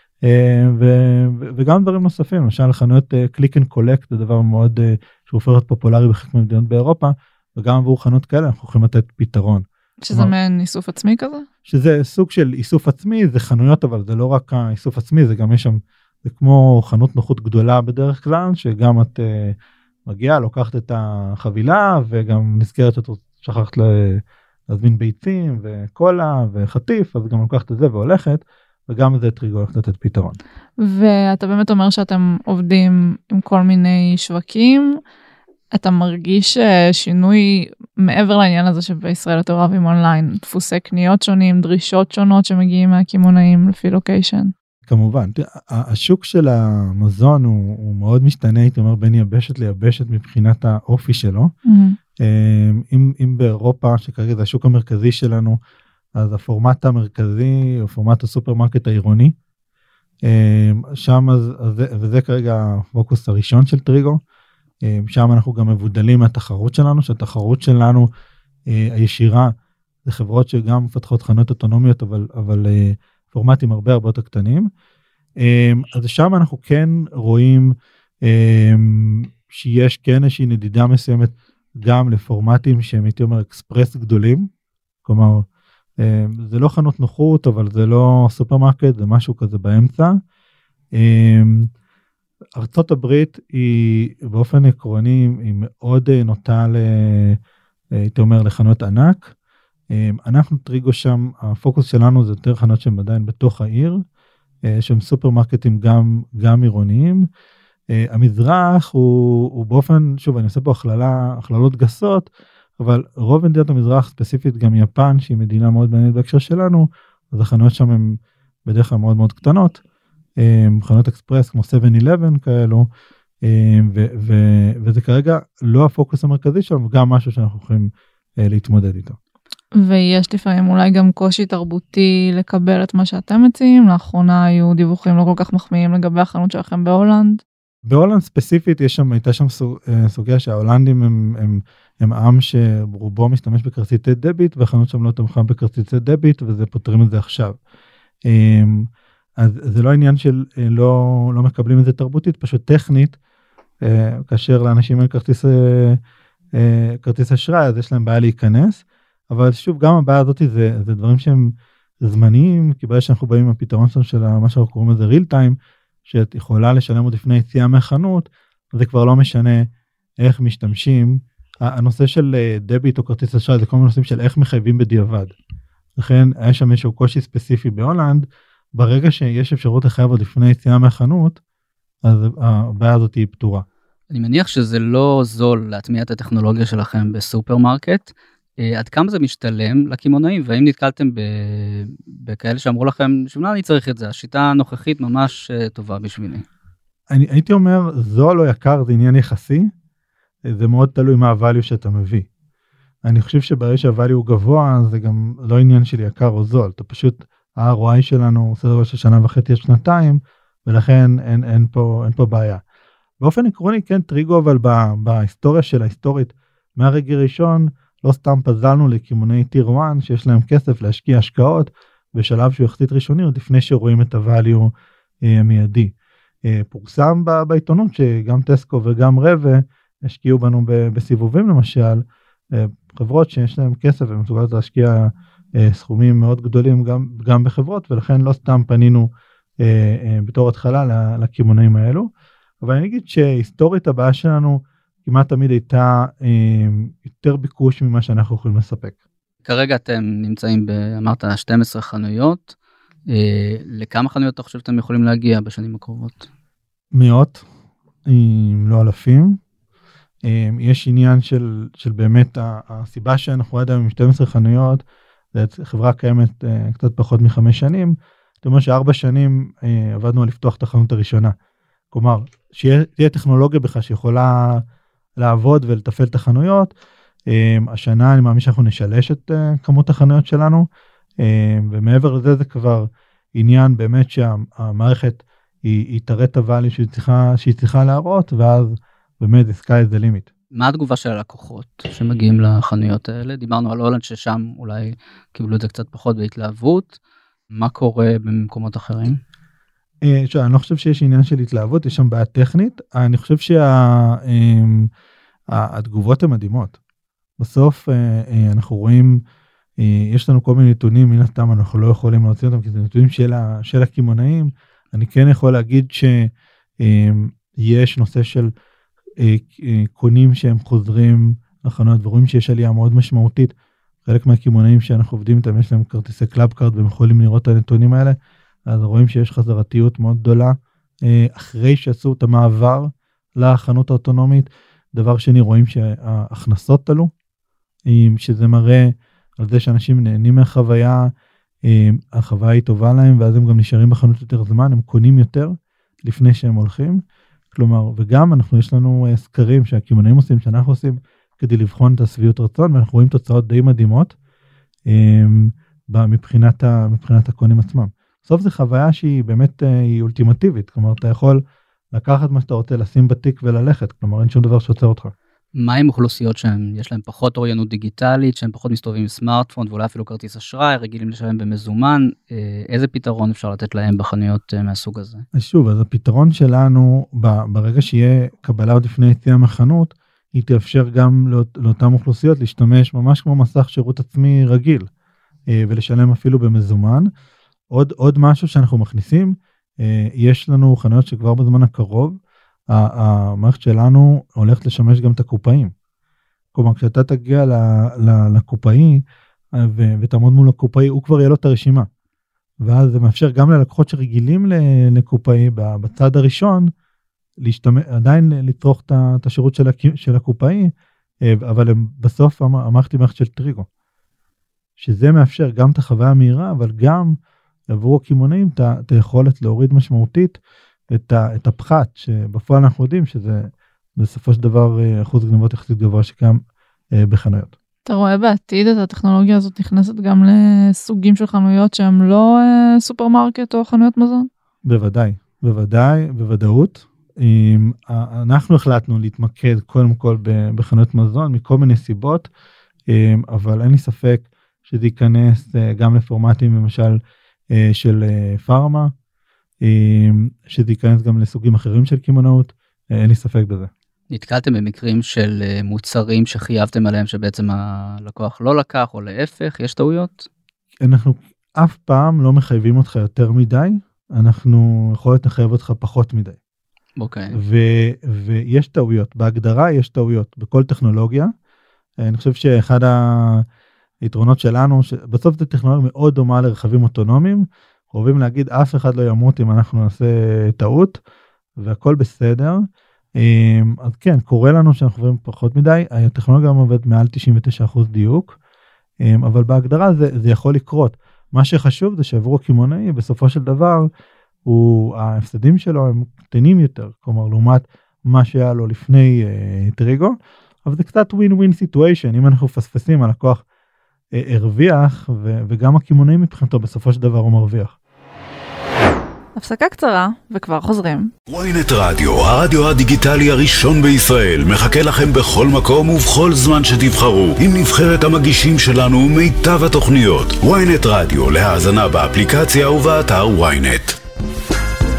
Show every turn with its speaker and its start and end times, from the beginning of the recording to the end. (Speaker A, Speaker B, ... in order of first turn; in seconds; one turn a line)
Speaker A: 0.2-10.3
Speaker B: 10.0-11.5
Speaker A: 11.7-30.4
Speaker B: 30.8-35.0
Speaker B: 35.7-44.5
Speaker A: 44.9-51.5
Speaker B: 51.6-52.0
Speaker A: 52.2-55.6
Speaker A: 56.2-59.3
Speaker A: 60.2-64.2
Speaker A: 64.8-68.1
Speaker A: 68.7-69.5
Speaker A: 70.0-74.7
Speaker A: 75.4-84.5
Speaker A: 85.0-85.5
Speaker A: 86.0-90.2
Speaker A: 91.0-91.7
Speaker A: 92.6-97.4
Speaker A: 97.9-99.3
Speaker A: 99.9-104.0
Speaker A: 104.7-107.2
Speaker A: 107.9-112.3
Speaker A: 112.8-119.8
Speaker A: 120.4-122.9
Speaker A: 123.4-127.9
Speaker A: 128.4-129.2
Speaker B: 129.8-137.4
Speaker A: 137.8-147.6
Speaker A: 148.3-148.9
Speaker A: 149.4-153.2
Speaker A: 153.8-156.0
Speaker A: 156.6-169.7
Speaker A: 170.2-175.3
Speaker A: 175.9-181.4
Speaker A: 182.0-183.6
Speaker C: 184.1-196.4
Speaker A: 197.1-199.7
Speaker A: 200.5-202.3
Speaker A: 203.0-212.6
Speaker A: 213.2-224.7
Speaker A: 225.2-225.9
Speaker A: 226.4-242.1
Speaker A: 242.6-248.9
Speaker C: 249.4-252.5
Speaker C: 253.1-256.3
Speaker A: 256.9-257.4
Speaker A: 258.1-259.4
Speaker A: 260.2-264.8
Speaker A: 265.3-271.3
Speaker A: 271.9-274.6
Speaker A: 275.2-276.7
Speaker A: 277.3-280.7
Speaker A: 281.2-290.3
Speaker C: 290.5-297.0
Speaker C: 297.5-299.2
Speaker A: 300.0-304.9
Speaker A: 305.5-306.7
Speaker A: 307.4-309.2
Speaker A: 309.8-318.5
Speaker A: 319.2-323.5
Speaker A: 324.0-328.2
Speaker A: 328.7-337.1
Speaker A: 337.9-341.1
Speaker A: 341.6-354.1
Speaker A: 354.9-361.4
Speaker A: 361.9-365.1
Speaker C: 365.6-375.2
Speaker A: 375.3-384.9
Speaker A: 385.5-387.1
Speaker A: 387.7-392.1
Speaker A: 392.7-395.7
Speaker A: 396.5-399.0
Speaker A: 399.6-401.9
Speaker A: 402.6-406.7
Speaker A: 407.4-410.7
Speaker A: 411.2-413.7
Speaker A: 414.8-417.2
Speaker A: 417.7-420.4
Speaker A: 420.9-426.4
Speaker A: 426.9-427.5
Speaker B: 427.9-434.3
Speaker A: 434.6-442.3
Speaker A: 442.9-447.0
Speaker A: 447.5-448.9
Speaker A: 449.6-453.7
Speaker C: 454.1-460.3
Speaker A: 460.8-466.4
Speaker C: 467.0-467.4
Speaker A: 467.3-471.3
Speaker A: 472.0-473.4
Speaker A: 474.0-481.0
Speaker A: 481.6-482.6
Speaker A: 483.2-488.4
Speaker A: 489.0-493.9
Speaker A: 494.4-503.4
Speaker A: 504.1-507.8
Speaker B: 509.4-511.1
Speaker D: 511.3-524.0